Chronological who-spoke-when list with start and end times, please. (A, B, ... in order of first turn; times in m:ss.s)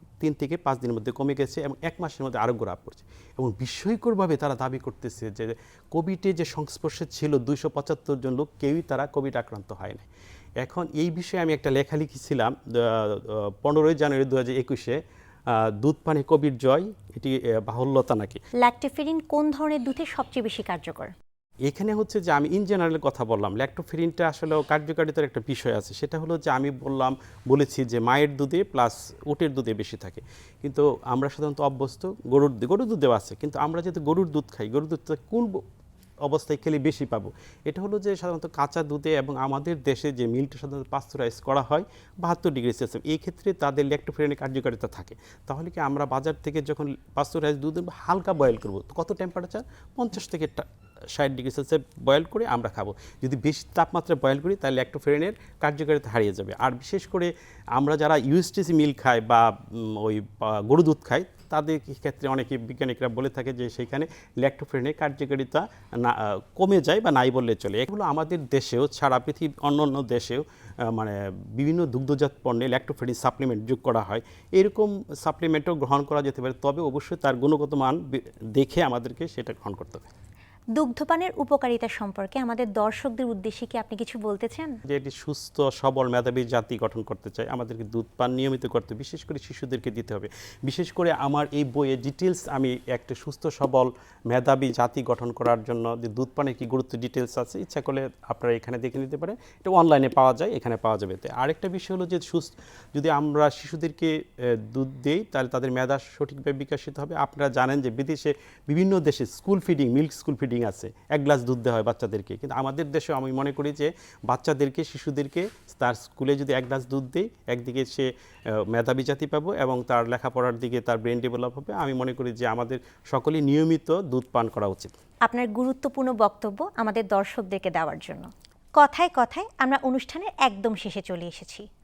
0:00.2-0:10.0 A
0:10.6-0:18.4 A
0:18.6-0:21.1 B
0:21.6-0:35.6 A
0:36.2-1:20.1 A
1:20.8-1:24.8 B
1:24.9-2:04.9 A
2:05.2-2:11.6 B